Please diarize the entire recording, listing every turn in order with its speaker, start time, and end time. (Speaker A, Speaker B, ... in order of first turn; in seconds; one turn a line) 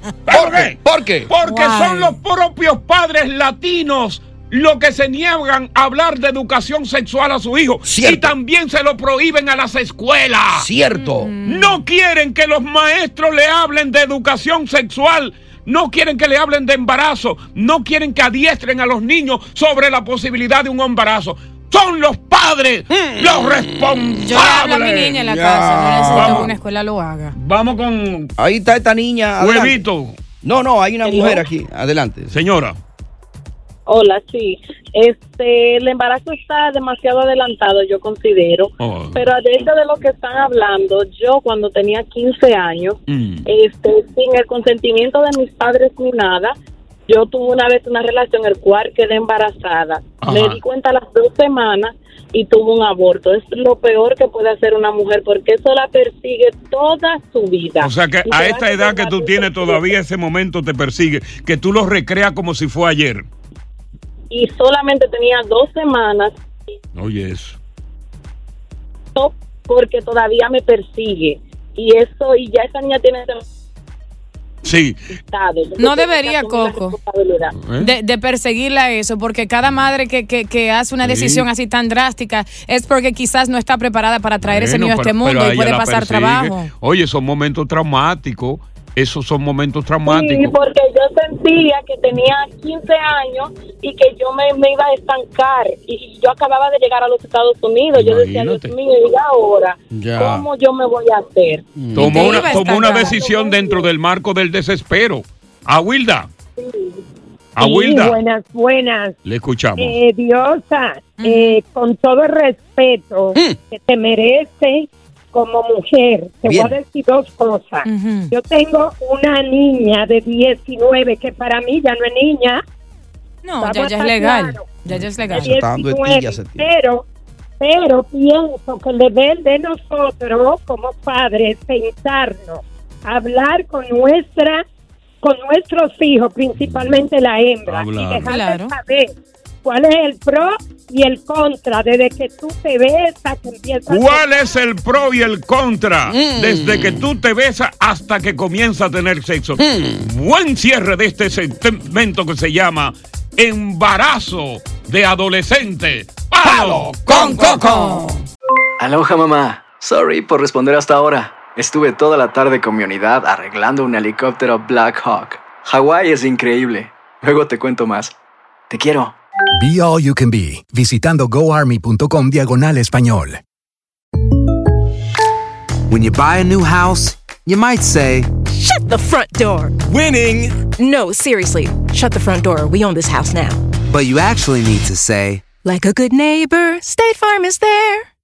Speaker A: 0.3-10.7
Speaker B: 0.3-1.3
Speaker C: 1.4-2.1
Speaker B: 7.8-8.3
Speaker B: 10.6-11.3
Speaker C: 11.0-11.8
Speaker A: 11.4-25.2
Speaker B: 22.9-24.2
Speaker C: 24.2-27.3
Speaker B: 25.1-26.5
Speaker A: 26.1-26.5
Speaker A: 27.3-28.3
Speaker B: 28.4-29.8
Speaker A: 29.4-30.2
Speaker B: 30.4-32.3
Speaker A: 32.3-32.8
Speaker D: 33.9-46.5
Speaker A: 38.8-39.2
Speaker A: 43.1-43.5
Speaker D: 47.1-59.9
Speaker A: 50.2-50.6
Speaker A: 57.8-63.2
Speaker D: 64.3-66.3
Speaker A: 67.0-67.6
Speaker D: 69.2-73.4
Speaker A: 74.6-75.0
Speaker D: 75.2-77.5
Speaker C: 75.8-77.0
Speaker A: 77.5-77.9
Speaker C: 77.8-86.7
Speaker A: 81.0-81.5
Speaker A: 84.4-90.5
Speaker D: 90.1-101.7
Speaker A: 97.9-98.7
Speaker B: 99.9-100.5
Speaker B: 101.8-102.3
Speaker A: 101.9-106.3
Speaker C: 102.1-103.2
Speaker D: 102.3-103.9
Speaker D: 106.6-107.0
Speaker A: 107.6-108.2
Speaker E: 107.6-109.1
Speaker A: 109.2-110.0
Speaker E: 109.8-114.7
Speaker C: 111.2-111.6
Speaker E: 115.3-122.6
Speaker B: 116.5-116.8
Speaker C: 117.8-118.3
Speaker C: 123.4-125.5
Speaker E: 123.6-124.8
Speaker B: 125.3-126.7
Speaker E: 125.3-127.0
Speaker E: 127.6-132.6
Speaker E: 133.1-134.6
Speaker E: 135.2-139.0
Speaker A: 137.7-138.3
Speaker C: 138.2-138.8
Speaker E: 139.7-144.4
Speaker A: 143.9-157.8
Speaker B: 146.1-147.0
Speaker B: 149.6-150.1
Speaker B: 156.4-158.2
Speaker C: 157.1-158.1
Speaker F: 158.8-168.1
Speaker F: 168.7-169.1
Speaker G: 169.5-173.4
Speaker H: 175.9-178.3
Speaker I: 178.5-179.8
Speaker I: 180.7-183.6
Speaker H: 183.9-185.5
Speaker I: 185.6-188.1